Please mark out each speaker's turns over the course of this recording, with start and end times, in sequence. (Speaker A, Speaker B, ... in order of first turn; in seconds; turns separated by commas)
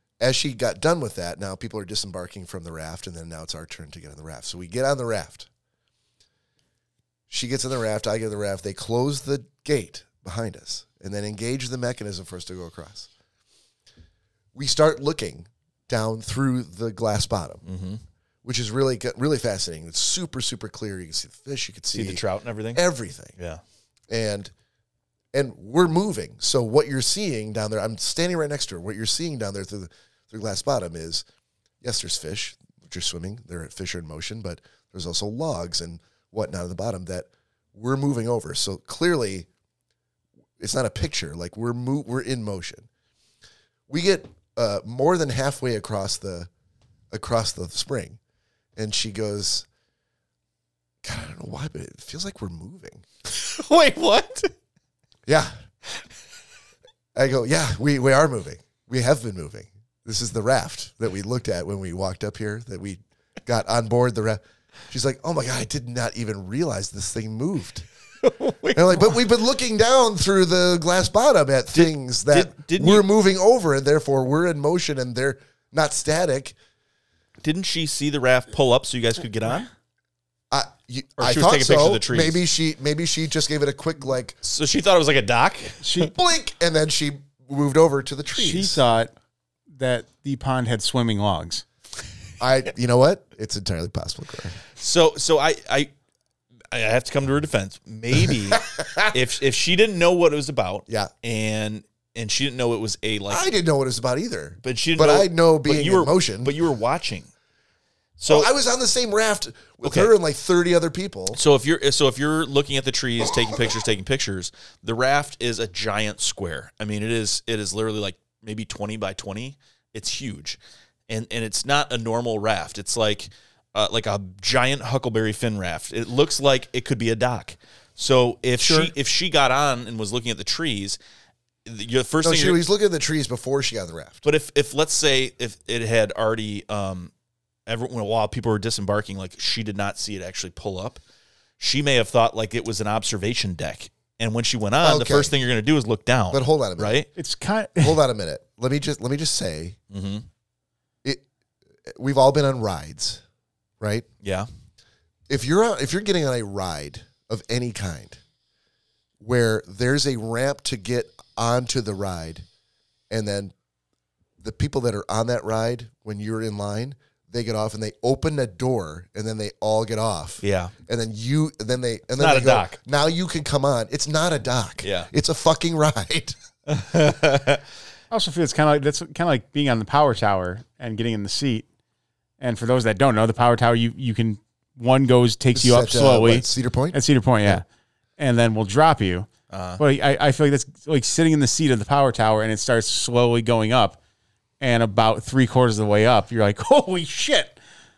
Speaker A: 0.2-5.5, Speaker A: 7.3-13.1, Speaker A: 14.5-17.6, Speaker B: 17.6-18.0, Speaker A: 18.4-22.2, Speaker B: 21.9-22.8, Speaker A: 22.7-23.4, Speaker A: 24.1-24.5, Speaker A: 25.3-31.2, Speaker A: 31.8-39.5, Speaker A: 40.6-42.9, Speaker A: 43.9-46.5, Speaker A: 47.1-48.2, Speaker A: 48.8-49.7, Speaker A: 51.0-53.0, Speaker B: 53.2-54.5, Speaker A: 55.3-55.5, Speaker A: 57.1-67.9, Speaker B: 68.2-69.2, Speaker A: 68.7-76.5, Speaker B: 71.7-73.1, Speaker B: 77.4-79.7, Speaker A: 80.5-84.4, Speaker B: 81.2-82.4, Speaker B: 84.4-86.1, Speaker C: 85.8-86.1, Speaker A: 86.0-88.8, Speaker C: 88.3-89.1, Speaker C: 89.7-91.6, Speaker A: 92.4-94.6, Speaker B: 94.8-95.9, Speaker B: 96.7-103.4, Speaker A: 98.3-99.1, Speaker A: 103.3-106.5, Speaker B: 104.6-107.3, Speaker B: 108.2-108.5, Speaker A: 108.3-111.4, Speaker B: 109.8-110.1, Speaker B: 111.3-131.0, Speaker C: 128.6-128.9, Speaker B: 131.6-132.6, Speaker A: 132.2-134.2, Speaker B: 134.2-137.1, Speaker B: 137.7-141.0, Speaker B: 141.6-147.1, Speaker A: 144.8-145.3, Speaker A: 146.3-147.0, Speaker C: 147.2-148.0, Speaker A: 147.8-149.8, Speaker B: 149.9-150.2, Speaker A: 151.9-153.2, Speaker A: 153.8-154.1, Speaker A: 155.3-158.2, Speaker A: 159.2-162.4, Speaker A: 163.1-163.5, Speaker A: 164.4-176.3, Speaker B: 170.4-170.7, Speaker B: 172.2-172.8, Speaker B: 174.8-175.1, Speaker B: 176.7-177.6, Speaker C: 178.1-181.7, Speaker C: 182.4-187.6, Speaker A: 185.5-187.6, Speaker C: 188.2-194.0, Speaker B: 189.5-189.8, Speaker C: 194.6-197.6